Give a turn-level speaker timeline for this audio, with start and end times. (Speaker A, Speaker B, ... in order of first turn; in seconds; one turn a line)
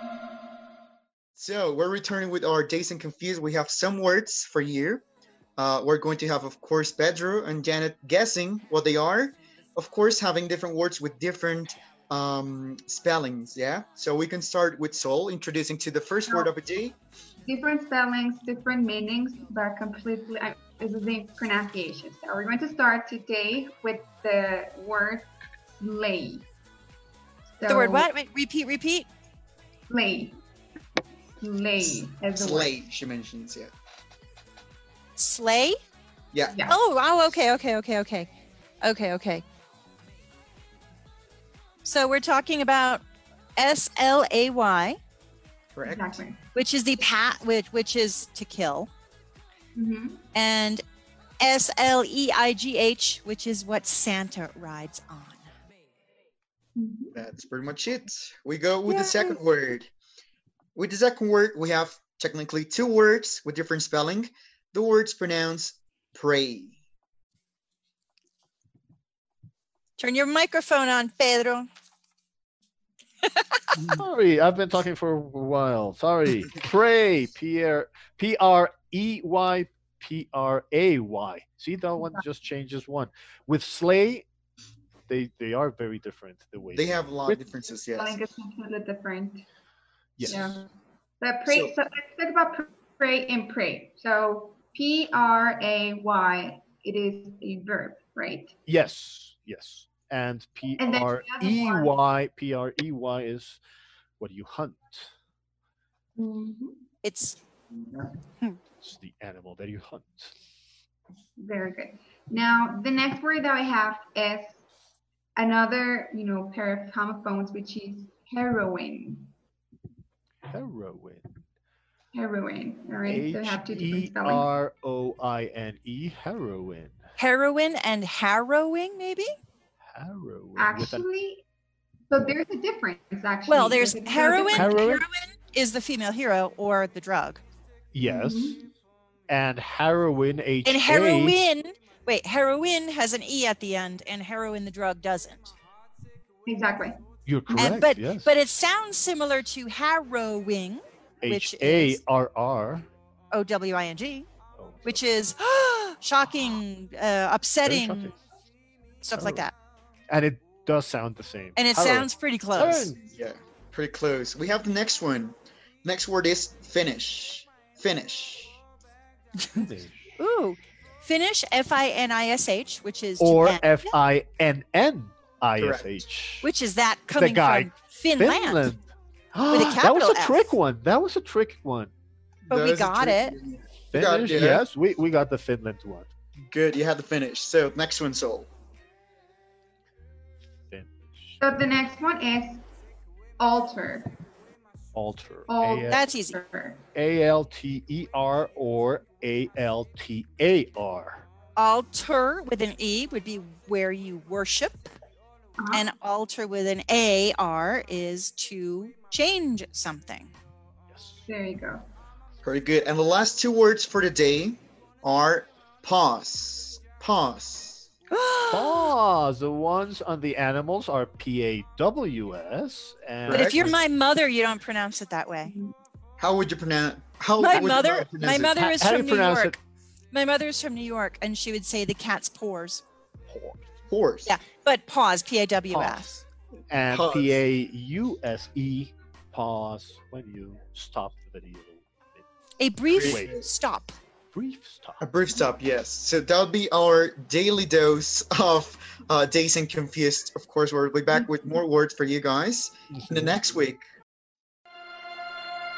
Speaker A: 1.4-5.0
Speaker A: 5.6-17.0
Speaker B: 16.3-16.5
Speaker B: 17.4-26.5
Speaker B: 27.6-28.1
Speaker C: 27.7-29.1
Speaker B: 29.9-30.4
Speaker B: 31.4-32.8
Speaker A: 31.8-33.7
Speaker C: 35.2-35.8
Speaker B: 36.5-36.8
Speaker C: 36.7-38.3
Speaker C: 38.8-39.4
Speaker C: 41.8-43.0
Speaker C: 43.6-45.0
Speaker A: 45.8-46.2
Speaker B: 45.8-46.4
Speaker C: 46.5-48.9
Speaker B: 49.8-50.2
Speaker C: 50.4-50.8
Speaker C: 51.4-55.5
Speaker B: 56.8-57.2
Speaker A: 57.1-59.9
Speaker C: 58.9-59.4
Speaker A: 60.8-66.8
Speaker C: 70.0-71.7
Speaker C: 73.2-73.6
Speaker D: 73.8-84.3
Speaker D: 85.1-87.5
Speaker A: 86.8-88.2
Speaker B: 87.9-89.5
Speaker D: 90.2-90.6
Speaker B: 90.2-90.7
Speaker B: 91.2-98.5
Speaker A: 91.5-91.7
Speaker D: 98.7-103.6
Speaker B: 100.8-101.9
Speaker D: 104.2-105.1
Speaker B: 106.2-106.8
Speaker C: 107.0-107.4
Speaker B: 107.7-108.2
Speaker D: 108.8-110.3
Speaker B: 111.4-114.6
Speaker B: 115.4-119.3
Speaker D: 120.5-121.4
Speaker B: 122.1-124.5
Speaker D: 123.1-127.0
Speaker C: 127.2-129.3
Speaker D: 129.9-131.0
Speaker B: 130.6-131.4
Speaker B: 132.1-134.9
Speaker C: 133.5-137.4
Speaker D: 134.5-135.1
Speaker D: 137.9-138.6
Speaker B: 138.0-138.7
Speaker D: 139.3-141.4
Speaker C: 140.7-145.5
Speaker B: 146.5-147.0
Speaker D: 147.3-148.3
Speaker B: 147.6-147.8
Speaker C: 147.6-152.0
Speaker D: 151.2-152.9
Speaker C: 153.3-154.3
Speaker D: 154.6-155.0
Speaker C: 154.9-158.1
Speaker D: 157.6-158.2
Speaker C: 159.0-159.5
Speaker D: 159.1-159.5
Speaker D: 160.1-163.0
Speaker C: 161.6-162.9
Speaker A: 163.0-168.6
Speaker D: 169.5-170.1
Speaker C: 170.2-173.9
Speaker D: 173.2-176.5
Speaker A: 175.6-175.9
Speaker C: 176.4-178.7
Speaker D: 177.2-181.9
Speaker C: 179.5-180.6
Speaker A: 182.5-184.6
Speaker C: 182.5-183.3
Speaker D: 183.9-186.1
Speaker A: 186.5-188.5
Speaker D: 190.7-191.4
Speaker B: 191.4-192.7
Speaker B: 193.4-194.1
Speaker D: 194.9-196.1
Speaker B: 195.5-196.8
Speaker C: 195.9-196.4
Speaker D: 196.9-201.2
Speaker C: 201.6-204.9
Speaker B: 205.6-205.9
Speaker C: 205.7-210.3
Speaker D: 210.9-211.2
Speaker B: 211.3-211.9
Speaker A: 212.4-217.9
Speaker C: 218.1-218.9
Speaker D: 218.5-223.8
Speaker A: 223.3-223.6
Speaker C: 223.3-225.5
Speaker B: 225.5-225.7
Speaker A: 226.2-228.5
Speaker C: 227.4-229.5
Speaker D: 228.6-229.6
Speaker C: 230.1-232.8
Speaker D: 233.3-233.6
Speaker A: 233.9-234.3
Speaker C: 234.3-236.1
Speaker D: 235.7-242.3
Speaker A: 236.9-237.3
Speaker C: 242.6-244.0
Speaker A: 242.9-243.5
Speaker D: 243.0-243.3
Speaker D: 244.3-245.0
Speaker A: 245.0-253.8
Speaker B: 251.1-251.6
Speaker D: 252.9-253.4